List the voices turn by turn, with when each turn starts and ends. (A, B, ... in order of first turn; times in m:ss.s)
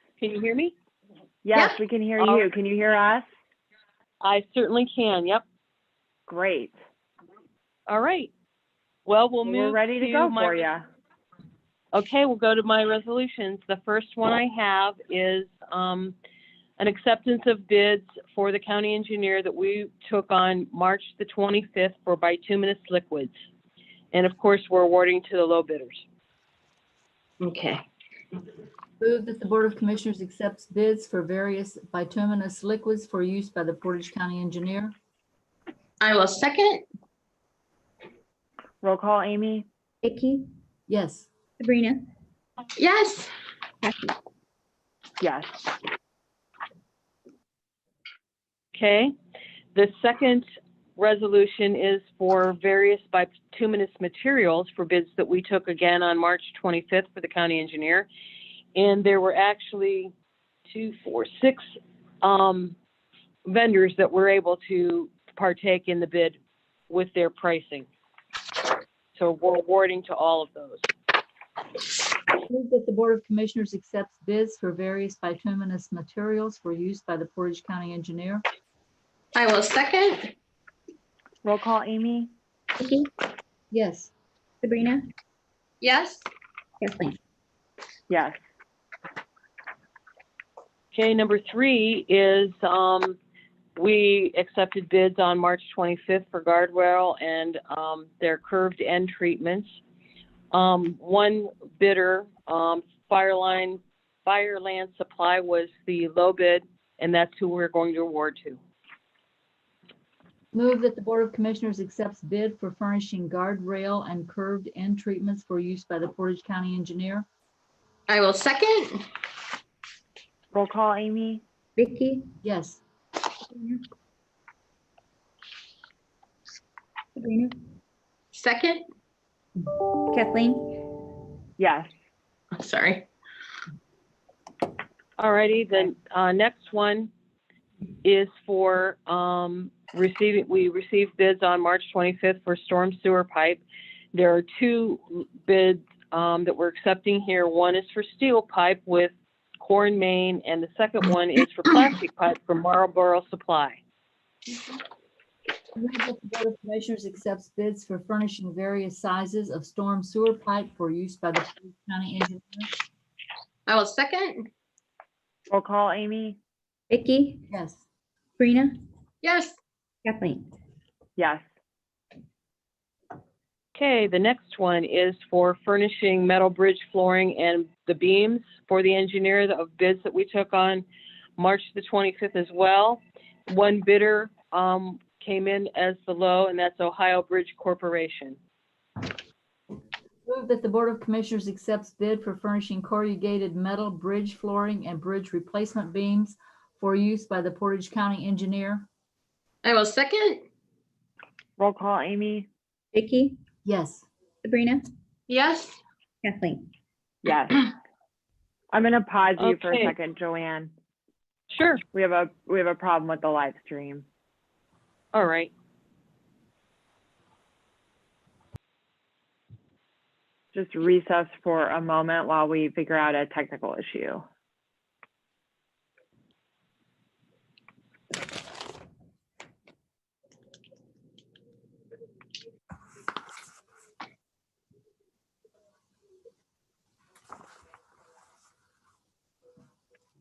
0:00.2-0:00.7 A
0:01.4-0:03.3 B
0:02.2-0:02.5 A
0:04.2-0:05.4 A
0:06.3-0:06.8 B
0:07.9-0:08.3 A
0:09.1-0:10.7 A
0:09.4-0:10.8 B
0:11.9-0:16.2 A
0:16.8-0:23.3 A
0:24.1-0:26.0 A
0:27.4-0:27.8 C
0:29.0-0:34.9 D
0:36.0-0:36.8 C
0:38.8-0:39.7 B
0:40.0-0:40.5 E
0:40.9-0:41.3 D
0:41.6-0:42.1 E
0:42.8-0:43.3 C
0:43.8-0:44.2 E
0:45.2-0:45.7 B
0:48.8-0:49.1 A
0:49.7-0:50.4 A
0:51.0-0:58.1 A
0:58.8-1:00.1 A
1:00.7-1:01.7 A
1:02.2-1:02.8 A
1:03.4-1:06.4 A
1:06.9-1:07.9 A
1:09.2-1:10.9 A
1:12.5-1:18.4 D
1:19.4-1:20.3 C
1:21.4-1:22.3 B
1:22.8-1:23.1 E
1:23.7-1:24.1 D
1:24.6-1:25.1 E
1:25.8-1:26.3 C
1:26.8-1:27.2 E
1:28.1-1:28.4 B
1:30.9-1:33.2 A
1:33.8-1:39.8 A
1:40.5-1:48.6 A
1:50.5-1:57.3 D
1:58.1-1:59.0 C
2:00.5-2:01.4 B
2:01.8-2:02.3 E
2:02.4-2:02.8 D
2:03.5-2:03.8 E
2:07.2-2:07.6 E
2:08.3-2:08.8 C
2:10.1-2:10.9 E
2:11.6-2:11.9 B
2:12.6-2:13.1 C
2:15.2-2:17.1 A
2:18.0-2:23.6 A
2:24.1-2:33.8 A
2:35.8-2:42.7 D
2:43.7-2:44.5 C
2:45.5-2:46.4 B
2:46.9-2:47.5 E
2:47.5-2:47.8 D
2:48.4-2:48.8 E
2:49.2-2:49.6 C
2:50.0-2:50.5 E
2:51.2-2:51.4 B
2:53.8-3:00.8 A
3:01.4-3:08.4 A
3:10.3-3:18.9 D
3:19.6-3:20.4 C
3:21.6-3:22.5 B
3:22.9-3:23.4 E
3:23.6-3:24.1 D
3:24.4-3:24.9 E
3:25.3-3:25.8 C
3:26.2-3:26.7 E
3:27.2-3:27.7 B
3:28.7-3:30.7 B
3:29.4-3:30.0 A
3:31.5-3:31.8 A
3:31.9-3:34.1 B
3:35.1-3:35.5 A
3:40.5-3:44.2 B